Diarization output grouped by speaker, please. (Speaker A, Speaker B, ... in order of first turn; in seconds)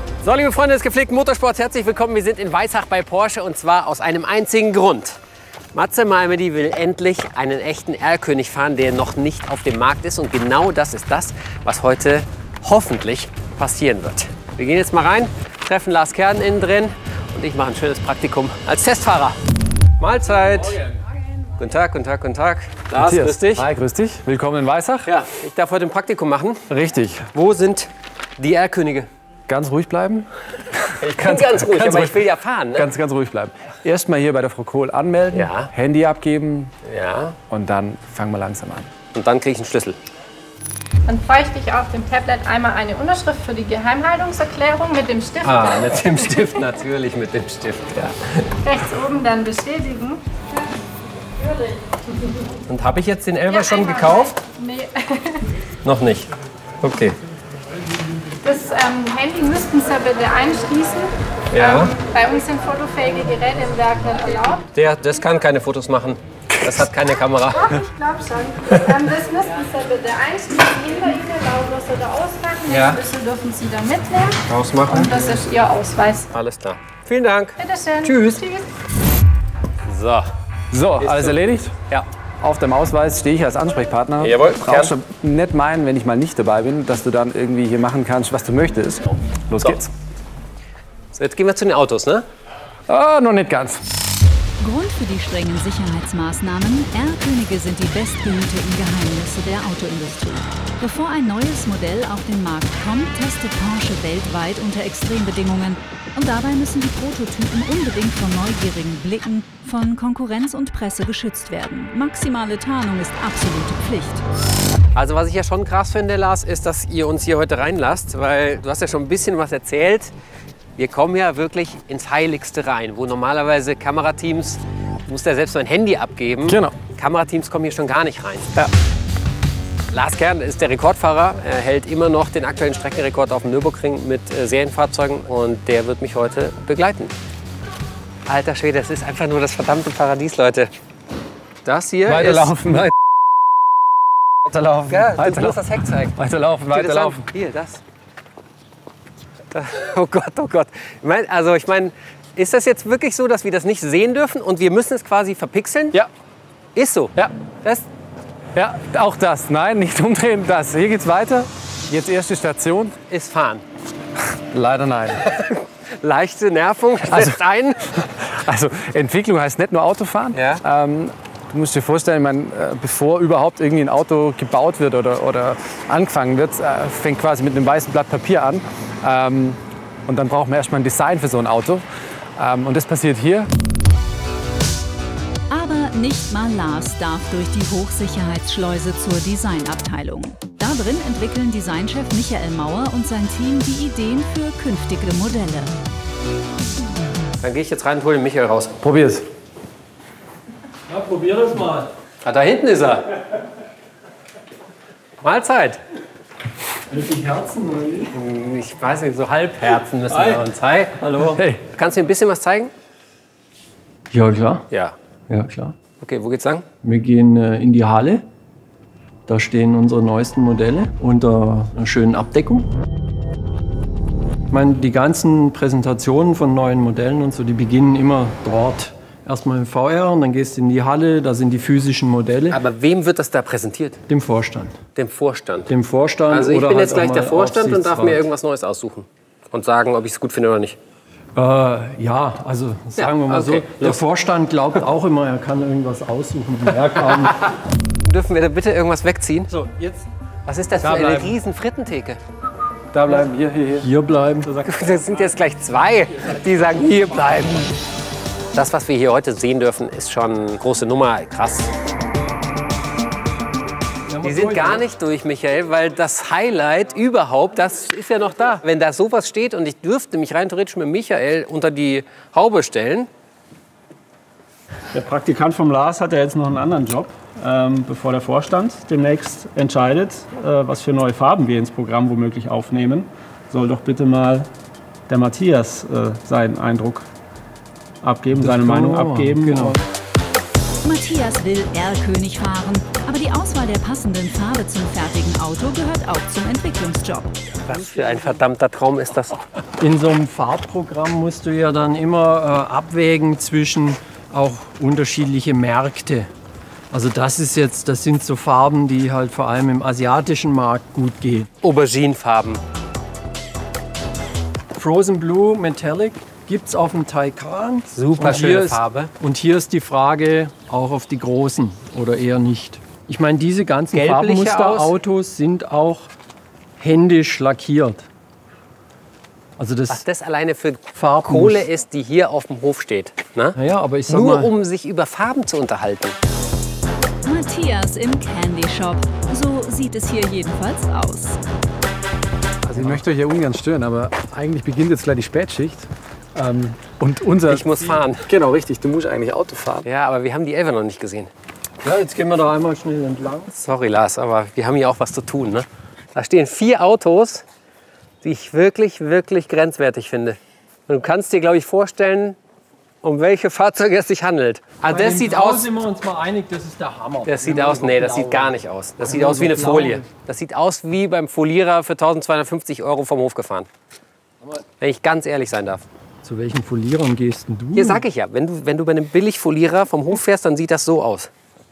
Speaker A: 0.2-5.2, 5.7-19.4, 20.0-20.9, 21.6-23.7, 25.1-26.7, 27.3-29.1, 31.0-32.9, 35.3-35.7, 36.8-37.4, 39.1-40.0, 45.4-48.5, 52.7-54.4, 55.9-56.3, 56.8-57.2, 61.5-61.9, 64.7-67.7, 72.7-73.0, 74.5-75.3, 76.3-78.4, 79.8-80.3, 81.0-81.3, 84.2-84.9, 91.2-92.2, 114.9-120.1, 120.8-128.5, 129.9-137.1, 138.2-140.7, 141.6-142.5, 144.9-146.2, 146.7-147.8, 149.5-156.0, 156.8-157.8, 163.1-163.6, 165.2-168.1, 170.3-170.6, 197.4-198.8, 202.2-203.1, 205.2-205.8, 208.1-211.0, 211.7-212.7, 216.0-216.6, 232.5-234.0, 234.9-235.7, 236.3-240.8, 243.0-244.0, 248.0-249.5, 250.4-252.2, 254.6-257.8, 258.5-261.7, 264.2-273.1, 297.6-299.4, 311.6-312.6, 317.9-319.1, 323.9-324.9, 329.9-333.6, 334.1-336.1, 347.5-348.3, 349.8-351.3, 353.5-357.4, 358.2-362.4, 363.0-365.7, 367.2-373.7, 374.8-375.8, 377.8-381.3
Speaker B: 22.9-25.1, 26.7-27.3, 29.5-32.2, 32.7-36.7, 37.5-38.9, 66.5-66.9, 80.7-81.8, 82.4-89.9, 92.9-93.8, 126.5-126.8, 142.1-142.9, 144.4-145.6, 146.1-147.2, 158.5-163.0, 164.3-165.3, 167.1-167.4, 167.9-181.8, 182.4-183.5, 198.8-199.2, 211.3-211.6, 250.8-251.3, 252.9-253.9, 342.6-349.9
Speaker C: 41.1-46.6, 48.6-50.2, 53.5-55.5, 58.4-64.7, 67.5-76.3, 77.6-78.7
Speaker D: 94.6-114.2, 185.5-195.8, 290.8-297.3, 337.2-341.4
Speaker E: 200.9-201.9, 206.9-208.1, 210.1-210.5, 211.0-211.4, 214.1-214.7, 215.3-215.8, 216.8-218.2, 219.3-222.7, 224.5-232.6, 234.1-234.8, 235.7-238.2, 241.3-247.5, 249.5-250.1, 253.8-255.1, 264.1-264.8, 288.3-289.8, 299.8-306.3, 306.9-311.5, 314.8-326.1, 326.8-328.1, 329.6-330.0, 330.9-331.6, 333.6-334.5, 351.8-353.5, 364.9-370.1, 376.2-378.0
Speaker F: 274.9-284.5, 285.1-287.1, 288.0-289.8